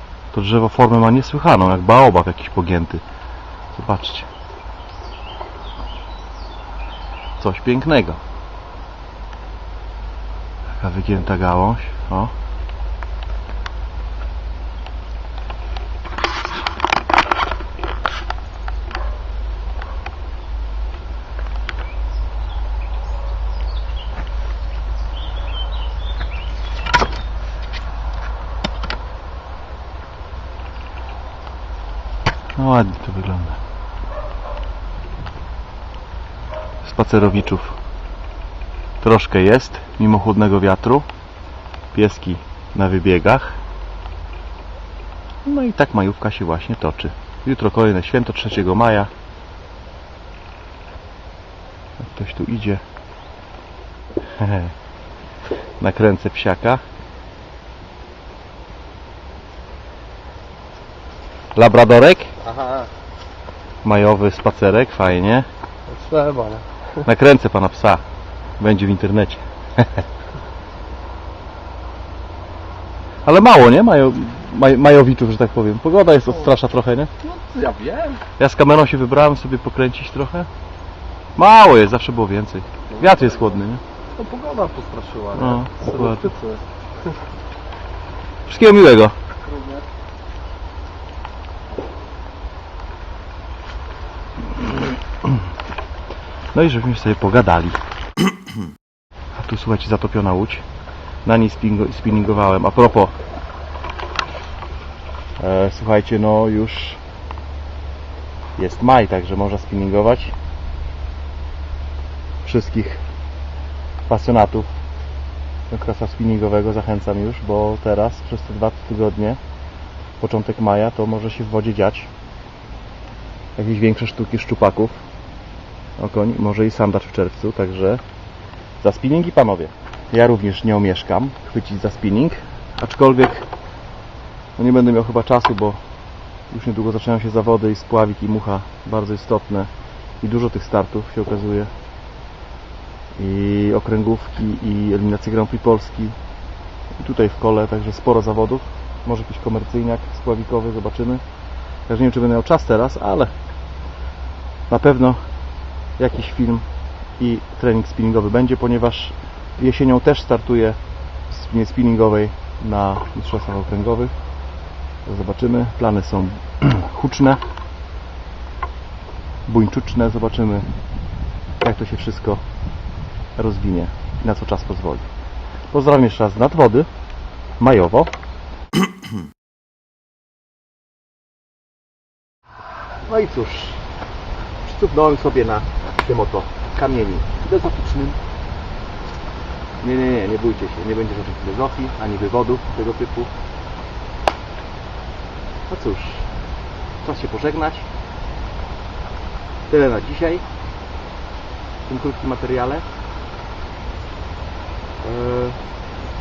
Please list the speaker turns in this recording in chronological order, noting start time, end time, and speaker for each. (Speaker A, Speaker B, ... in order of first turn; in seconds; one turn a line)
Speaker A: 0.3-3.0
Speaker A: 3.7-4.3
Speaker A: 7.4-8.2
Speaker A: 10.8-12.3
Speaker A: 32.6-33.6
Speaker A: 36.8-37.8
Speaker A: 39.0-41.1
Speaker A: 41.9-43.6
Speaker A: 45.5-49.1
Speaker A: 52.0-52.8
Speaker A: 54.2-54.7
Speaker A: 55.8-56.8
Speaker A: 61.5-62.4
Speaker B: 62.6-62.9
Speaker A: 63.8-65.5
Speaker B: 65.9-66.7
Speaker A: 67.0-68.0
Speaker A: 68.6-70.0
Speaker A: 73.3-77.1
Speaker B: 77.3-78.2
Speaker A: 78.4-80.5
Speaker A: 81.4-83.8
Speaker B: 84.2-86.6
Speaker A: 85.3-86.4
Speaker A: 88.5-89.2
Speaker A: 94.4-95.4
Speaker A: 96.5-97.8
Speaker A: 99.3-100.7
Speaker A: 101.2-103.2
Speaker A: 105.4-107.0
Speaker A: 108.6-110.3
Speaker A: 112.4-113.0
Speaker A: 114.1-114.7
Speaker A: 115.7-119.4
Speaker A: 120.2-122.1
Speaker A: 123.6-125.0
Speaker A: 126.0-128.0
Speaker A: 128.8-133.5
Speaker A: 134.6-135.8
Speaker A: 136.5-139.7
Speaker A: 140.2-141.7
Speaker A: 143.2-146.2
Speaker A: 147.0-151.2
Speaker A: 151.9-153.3
Speaker A: 154.7-155.2
Speaker A: 156.0-156.7
Speaker A: 157.2-160.8
Speaker A: 161.3-164.1
Speaker A: 165.1-167.4
Speaker A: 169.5-170.7
Speaker A: 171.6-172.4
Speaker A: 173.4-175.1
Speaker A: 175.7-176.9
Speaker A: 177.6-178.1
Speaker A: 183.1-183.8
Speaker A: 184.6-188.2
Speaker A: 189.8-193.3
Speaker A: 195.7-196.3
Speaker A: 197.0-197.9
Speaker A: 199.7-200.5
Speaker A: 201.9-202.9
Speaker A: 205.0-205.6